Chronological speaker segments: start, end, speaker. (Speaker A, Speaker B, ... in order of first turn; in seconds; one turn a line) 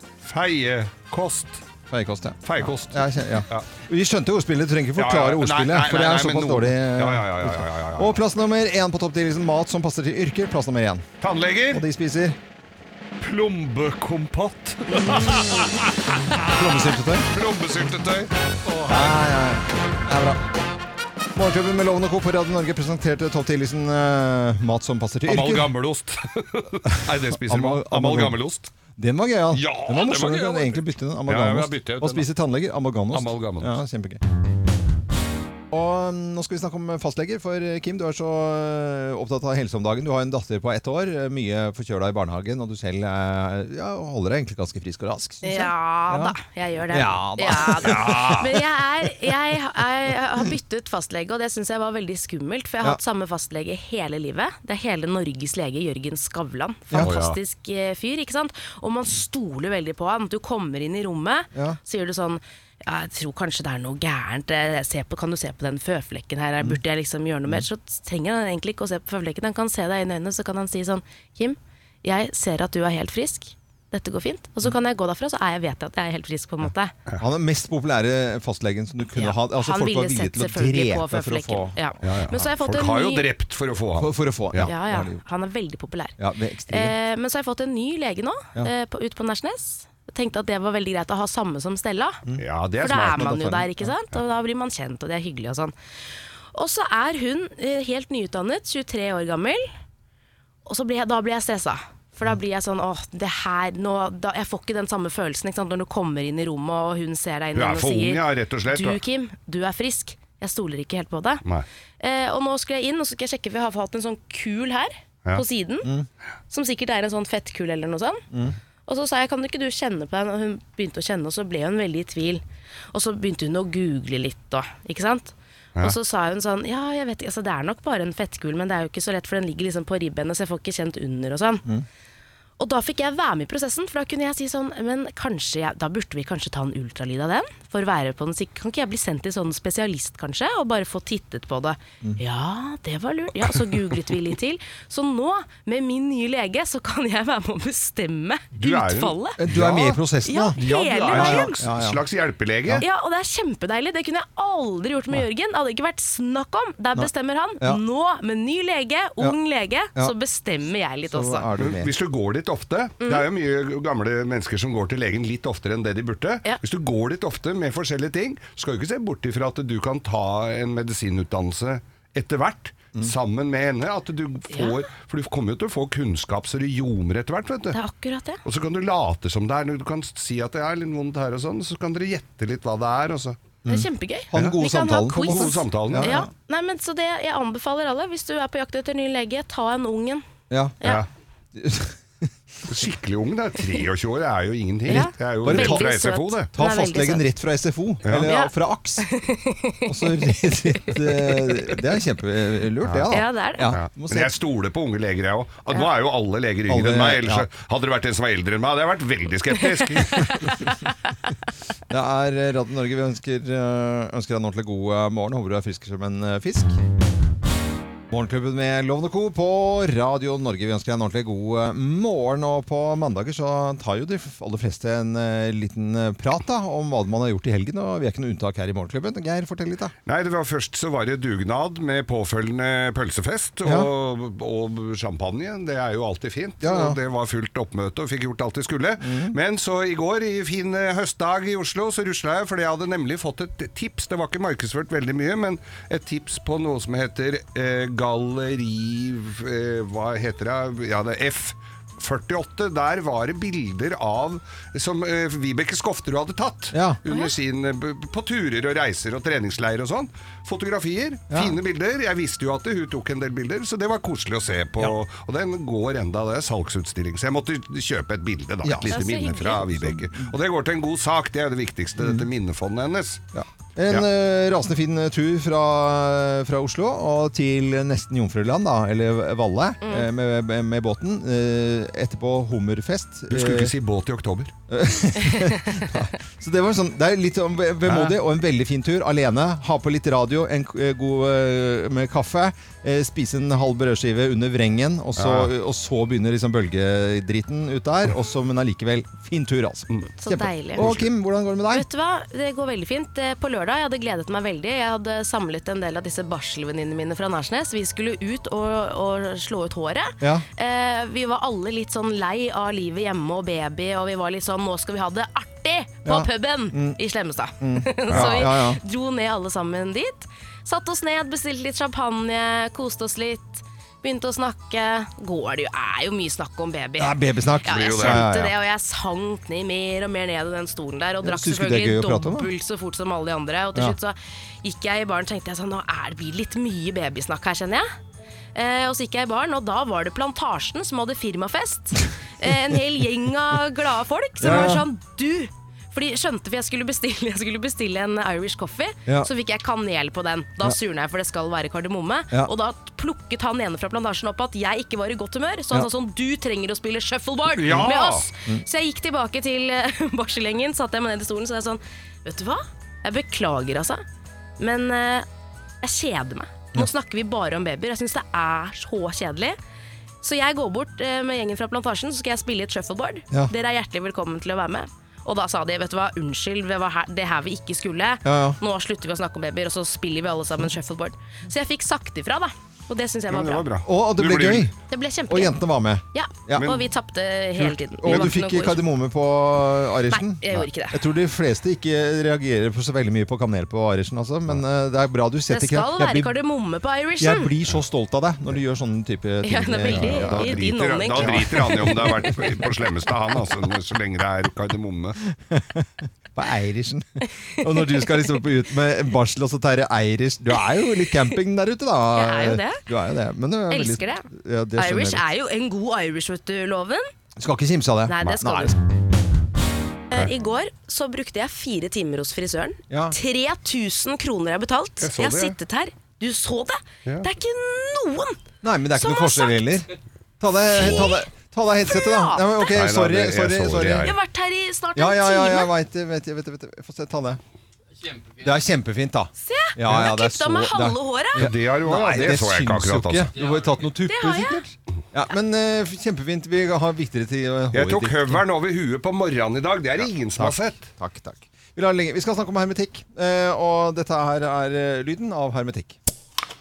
Speaker A: 0.2-1.6
Speaker B: 1.9-11.1
Speaker A: 2.4-3.7
Speaker A: 5.0-8.2
Speaker A: 11.2-11.8
Speaker B: 11.7-12.4
Speaker A: 13.2-19.1
Speaker B: 15.0-15.5
Speaker B: 16.5-17.3
Speaker B: 18.9-20.4
Speaker B: 21.3-25.7
Speaker A: 25.3-28.7
Speaker B: 27.1-28.4
Speaker B: 29.0-34.2
Speaker A: 29.5-32.3
Speaker A: 33.1-33.8
Speaker B: 35.7-46.4
Speaker C: 45.4-76.9
Speaker B: 46.9-48.6
Speaker A: 47.8-48.5
Speaker A: 57.0-57.4
Speaker B: 77.2-81.8
Speaker C: 79.2-83.3
Speaker A: 82.0-84.7
Speaker B: 84.0-85.2
Speaker C: 84.7-86.2
Speaker B: 86.2-87.0
Speaker C: 86.7-92.2
Speaker B: 92.3-93.9
Speaker A: 92.4-93.3
Speaker C: 92.8-95.7
Speaker C: 96.5-99.7
Speaker C: 100.7-111.4
Speaker A: 107.5-109.0
Speaker C: 112.0-115.9
Speaker C: 116.5-118.2
Speaker B: 118.3-118.6
Speaker C: 118.9-122.4
Speaker C: 122.9-131.6
Speaker C: 132.6-149.4
Speaker A: 148.5-150.0
Speaker B: 149.4-150.6
Speaker C: 150.3-151.6
Speaker A: 150.5-152.8
Speaker B: 151.1-152.0
Speaker C: 152.8-161.5
Speaker B: 161.1-161.9
Speaker A: 161.6-177.8
Speaker C: 174.5-174.8
Speaker C: 177.7-178.4
Speaker A: 178.4-183.4
Speaker B: 183.6-186.3
Speaker C: 183.7-190.2
Speaker A: 185.2-186.2
Speaker B: 190.5-190.8
Speaker B: 191.5-192.3
Speaker A: 192.7-196.5
Speaker C: 194.9-197.2
Speaker B: 194.9-195.9
Speaker B: 196.5-199.1
Speaker C: 198.2-201.3
Speaker B: 199.9-204.3
Speaker A: 202.8-203.1
Speaker C: 203.1-203.7
Speaker A: 203.7-210.5
Speaker B: 206.7-207.5
Speaker C: 210.1-210.7
Speaker B: 211.9-216.8
Speaker B: 218.1-229.9
Speaker A: 230.1-273.2
Speaker B: 233.6-233.9
Speaker B: 236.6-237.0
Speaker B: 239.0-239.3
Speaker B: 256.7-257.0
Speaker C: 257.1-257.3
Speaker B: 261.3-261.6
Speaker B: 268.6-270.2
Speaker C: 268.8-269.6
Speaker B: 272.0-272.3
Speaker B: 273.3-283.7
Speaker A: 283.3-284.5
Speaker B: 284.7-301.9
Speaker C: 285.2-285.9
Speaker A: 287.9-288.1
Speaker A: 295.2-295.5
Speaker C: 300.2-300.9
Speaker A: 300.8-301.1
Speaker C: 301.7-337.9
Speaker B: 310.2-310.5
Speaker B: 316.0-317.0
Speaker B: 317.6-318.8
Speaker B: 327.0-328.5
Speaker A: 327.7-328.2
Speaker B: 331.2-332.5
Speaker C: 338.5-364.0
Speaker B: 344.4-344.9
Speaker A: 357.5-358.3
Speaker C: 364.6-365.2
Speaker C: 365.8-369.6
Speaker C: 370.2-383.7
Speaker B: 378.2-378.6
Speaker A: 383.3-384.7
Speaker B: 383.8-384.8
Speaker C: 384.9-385.6
Speaker B: 385.3-386.8
Speaker C: 386.1-388.8
Speaker B: 387.6-396.4
Speaker A: 388.1-388.3
Speaker C: 390.1-391.0
Speaker C: 395.5-397.5
Speaker B: 397.2-402.7
Speaker C: 399.4-402.3
Speaker A: 399.9-405.2
Speaker B: 405.4-415.3
Speaker C: 407.2-408.3
Speaker C: 410.6-411.3
Speaker C: 412.1-412.8
Speaker C: 413.7-417.1
Speaker B: 417.4-418.8
Speaker C: 418.1-418.7
Speaker C: 420.1-428.4
Speaker B: 422.9-423.2
Speaker A: 425.0-425.6
Speaker B: 428.6-434.1
Speaker C: 428.9-429.8
Speaker C: 430.8-431.2
Speaker C: 431.9-432.7
Speaker A: 432.7-434.2
Speaker C: 434.0-435.7
Speaker B: 434.9-437.4
Speaker B: 438.4-448.4
Speaker C: 439.4-441.5
Speaker A: 441.4-443.4
Speaker C: 444.1-444.6
Speaker A: 447.7-450.9
Speaker B: 450.0-456.0